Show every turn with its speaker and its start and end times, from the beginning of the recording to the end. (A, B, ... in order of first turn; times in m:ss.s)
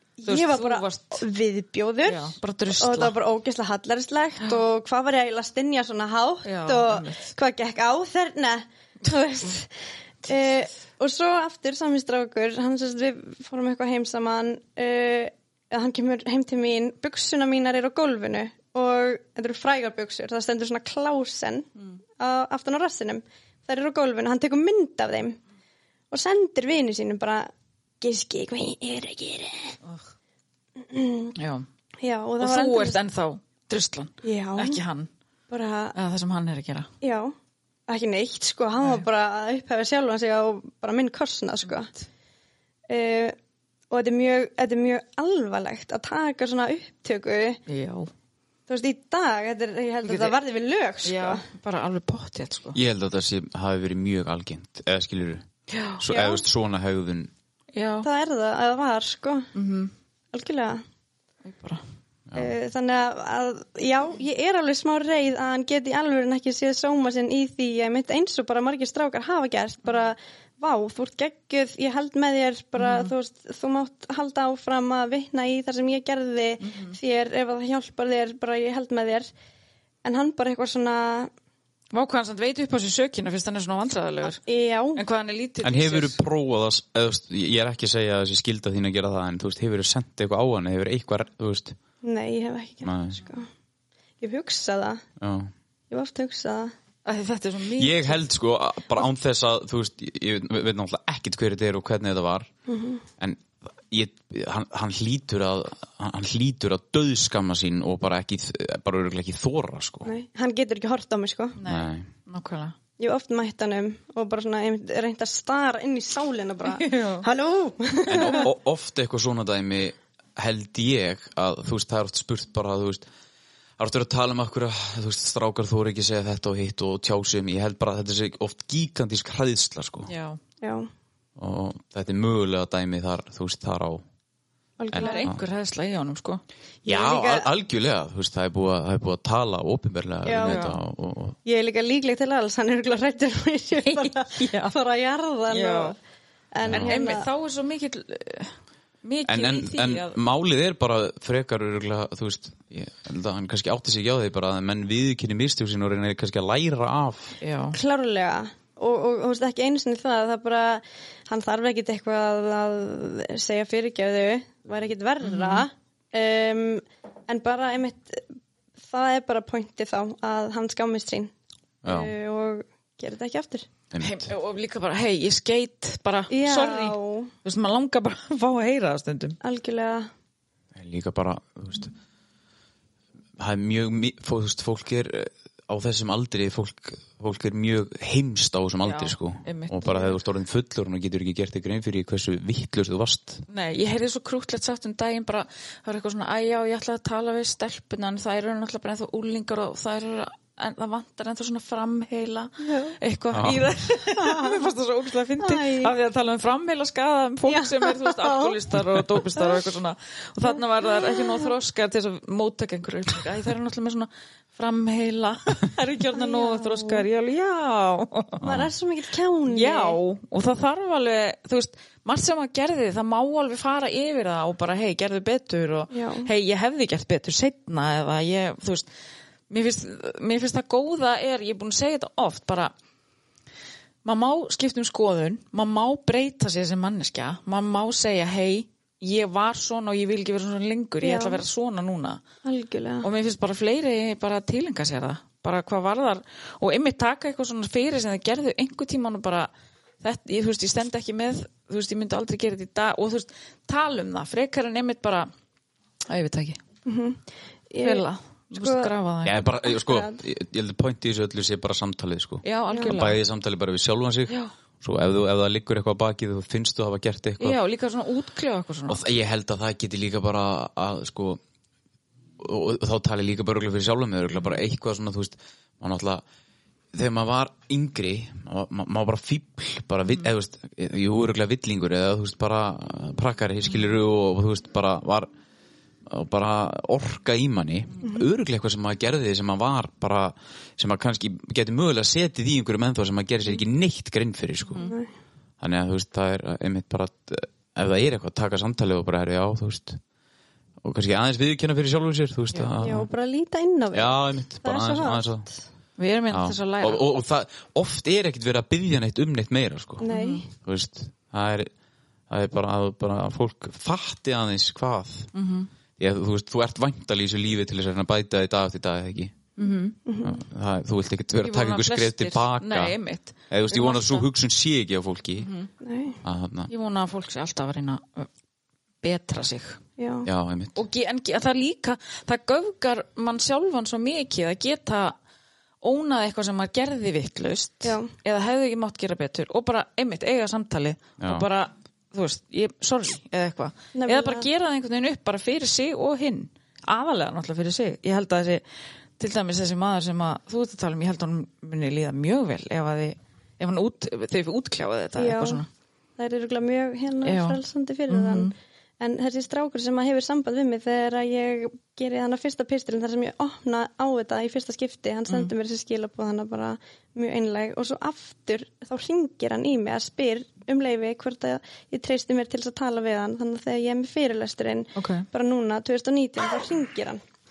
0:00.2-0:09.7 A
0:00.2-0:01.2 B
0:02.0-0:03.2 B
0:06.4-0:07.3 B
0:10.3-0:21.7 A
0:22.2-0:25.4 A
0:26.1-0:27.5 A
0:28.0-0:29.8 A
0:30.8-0:31.3 A
0:31.4-0:31.7 B
0:32.0-0:33.0 A
0:32.4-0:35.1 B
0:34.2-0:34.8 A
0:35.5-0:36.0 A
0:35.9-0:36.9 B
0:37.0-0:37.3 A
0:37.9-0:41.9 A
0:42.9-0:43.4 A
0:43.9-0:47.6 A
0:47.7-0:48.1 B
0:48.7-0:51.4 A
0:50.0-0:50.4 B
0:51.0-0:52.8 B
0:52.7-0:55.4 C
0:55.7-0:56.0 B
0:56.0-0:57.3 C
0:56.1-0:56.4 A
0:57.8-0:58.1 B
0:58.0-0:59.5 A
0:59.6-0:59.9 B
1:00.3-1:00.8 A
1:01.4-1:01.8 B
1:02.4-1:19.3 A
1:12.8-1:13.1 B
1:16.6-1:17.0 B
1:20.0-1:21.3 A
1:21.9-1:24.4 B
1:24.4-1:25.0 A
1:25.0-1:26.2 B
1:25.6-1:31.8 C
1:32.0-1:33.5 A
1:32.8-1:33.2 C
1:34.2-1:35.0 A
1:35.2-1:35.5 C
1:35.9-1:36.7 A
1:37.0-1:38.2 B
1:37.8-1:42.5 C
1:42.7-1:43.0 A
1:43.2-1:50.1 C
1:50.1-1:51.6 A
1:51.6-1:52.8 B
1:51.7-1:52.1 C
1:53.0-1:58.5 A
1:56.7-1:57.3 B
1:58.1-2:03.1 C
2:03.8-2:10.1 C
2:10.1-2:10.4 B
2:10.6-2:10.9 A
2:11.4-2:14.0 C
2:14.8-2:15.3 A
2:14.9-2:15.4 C
2:14.9-2:16.4 B
2:16.8-2:17.5 A
2:16.9-2:21.4 C
2:20.2-2:20.7 A
2:20.4-2:20.8 B
2:21.4-2:26.0 A
2:23.8-2:24.7 B
2:25.5-2:26.0 B
2:26.5-2:27.3 A
2:26.7-2:26.9 C
2:26.7-2:30.2 B
2:29.3-2:37.4 C
2:37.4-2:37.8 B
2:37.7-2:48.2 A
2:45.2-2:45.7 B
2:48.8-2:51.3 A
2:51.8-2:52.1 C
2:51.8-2:53.7 A
2:53.9-2:54.3 C
2:54.0-2:59.4 B
2:56.3-2:57.3 A
2:59.4-3:00.1 A
3:00.8-3:01.9 C
3:03.4-3:13.4 C
3:08.8-3:10.1 B
3:13.5-3:38.5 B
3:22.6-3:23.0 A
3:23.3-3:23.6 C
3:24.1-3:24.6 A
3:25.4-3:25.9 A
3:27.5-3:28.6 A
3:30.8-3:31.5 A
3:36.1-3:37.0 A
3:38.4-3:38.7 C
3:38.4-3:40.0 A
3:39.5-3:48.9 B
3:45.9-3:46.3 A
3:49.5-3:52.7 B
3:54.0-4:02.2 B
4:01.0-4:01.4 A
4:02.4-4:03.1 A
4:03.0-4:09.5 B
4:10.0-4:15.3 B
4:16.1-4:16.6 B
4:16.9-4:18.9 A
4:17.8-4:19.4 B
4:19.2-4:27.6 C
4:19.7-4:20.2 A
4:22.4-4:23.2 B
4:22.7-4:23.0 A
4:27.4-4:29.0 B
4:28.9-4:31.4 C
4:32.4-4:36.2 C
4:36.9-4:45.3 C
4:46.1-4:54.8 C
4:54.8-4:55.1 A
4:55.6-5:00.0 C
5:00.8-5:03.1 C
5:02.8-5:05.5 A
5:03.9-5:05.5 C
5:06.0-5:07.0 B
5:06.3-5:11.7 C
5:10.0-5:10.5 A
5:10.1-5:10.5 B
5:12.3-5:15.3 C
5:15.3-5:15.7 B
5:16.0-5:19.4 C
5:19.6-5:20.0 B
5:20.1-5:20.4 A
5:20.2-5:23.0 C
5:21.4-5:24.3 B
5:23.5-5:25.5 C
5:25.4-5:25.7 B
5:25.8-5:26.2 A
5:26.2-5:26.7 C
5:26.7-5:28.3 B
5:29.0-5:29.8 B
5:30.0-5:30.3 A
5:30.2-5:30.8 C
5:30.8-5:35.2 B
5:35.8-5:48.6 B
5:37.8-5:38.1 A
5:41.2-5:41.5 C
5:44.0-5:44.5 A
5:49.2-5:55.7 B
5:55.2-5:55.6 A
5:56.2-6:17.2 A
5:57.2-5:58.5 B
6:15.0-6:15.3 B